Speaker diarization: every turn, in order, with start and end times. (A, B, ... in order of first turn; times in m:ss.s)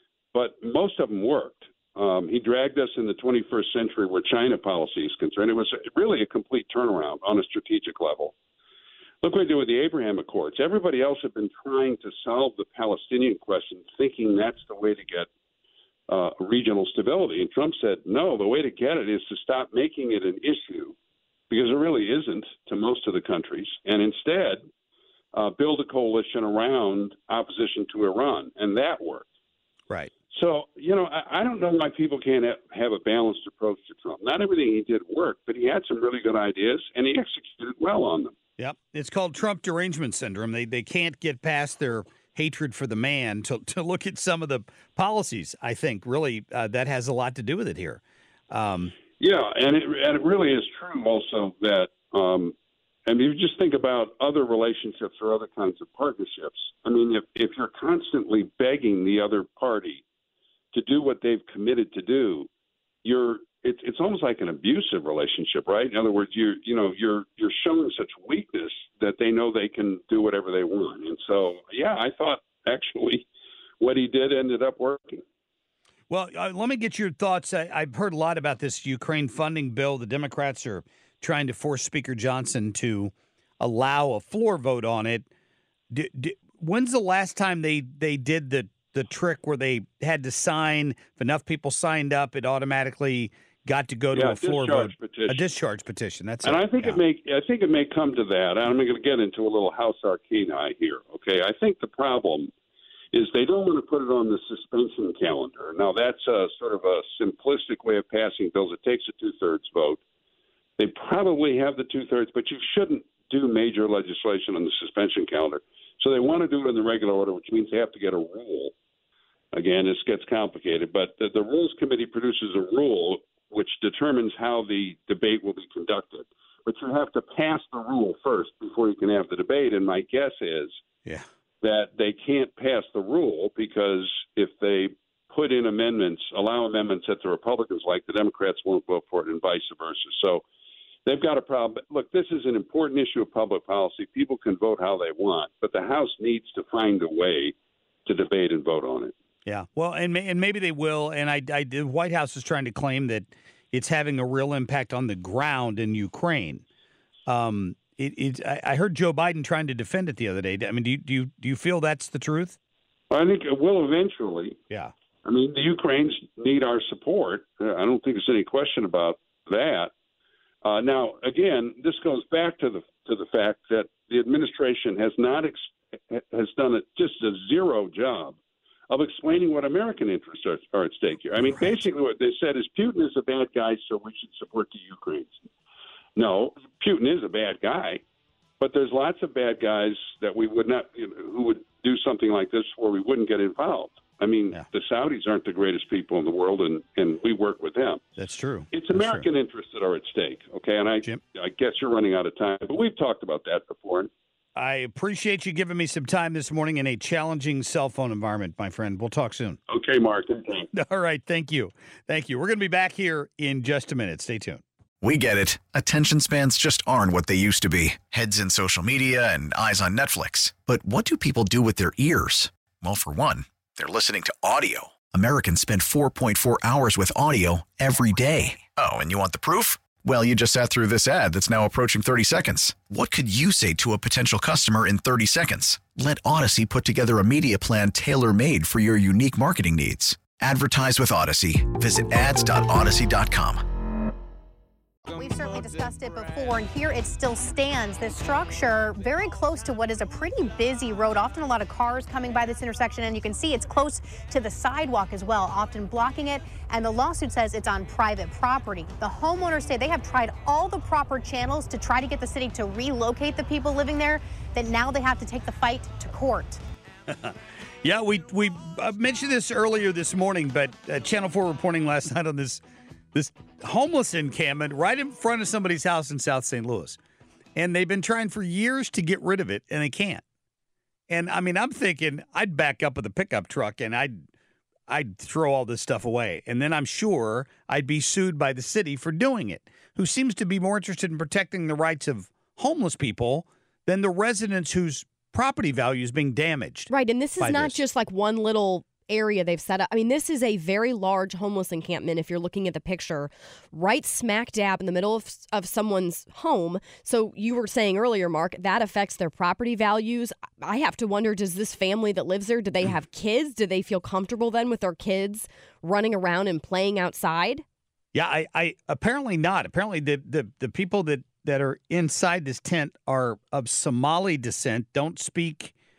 0:00.3-0:08.3 A
0:09.2-0:15.3 A
0:16.1-0:20.9 A
0:21.5-0:24.6 A
0:25.3-0:29.2 A
0:30.3-0:38.3 A
0:38.6-0:48.9 B
0:49.2-0:52.5 A
0:53.1-1:00.0 A
1:00.7-1:02.5 A
1:03.0-1:13.3 A
1:13.8-1:15.2 A
1:16.1-1:25.3 B
1:25.9-1:37.0 B
1:34.1-1:35.4 A
1:36.4-1:42.5 A
1:43.1-1:50.0 A
1:50.8-1:58.7 A
1:59.5-2:10.8 A
2:11.6-2:20.4 A
2:21.0-2:27.5 A
2:28.0-2:29.1 A
2:29.4-2:36.6 B
2:37.2-2:42.6 B
2:43.1-2:44.6 A
2:45.2-2:49.9 A
2:50.6-2:58.4 A
2:58.9-3:05.4 A
3:06.2-3:08.0 A
3:08.6-3:18.0 A
3:18.2-3:19.3 B
3:18.7-3:24.1 A
3:24.6-3:29.6 B
3:29.7-3:30.7 A
3:30.7-3:34.6 B
3:35.0-4:03.6 C
4:05.1-4:26.6 D
4:27.1-4:32.6 B
4:33.1-4:37.0 B
4:37.6-4:40.2 B
4:41.1-4:44.2 B
4:44.9-4:57.8 B
4:56.9-5:17.6 E
5:18.1-5:25.7 B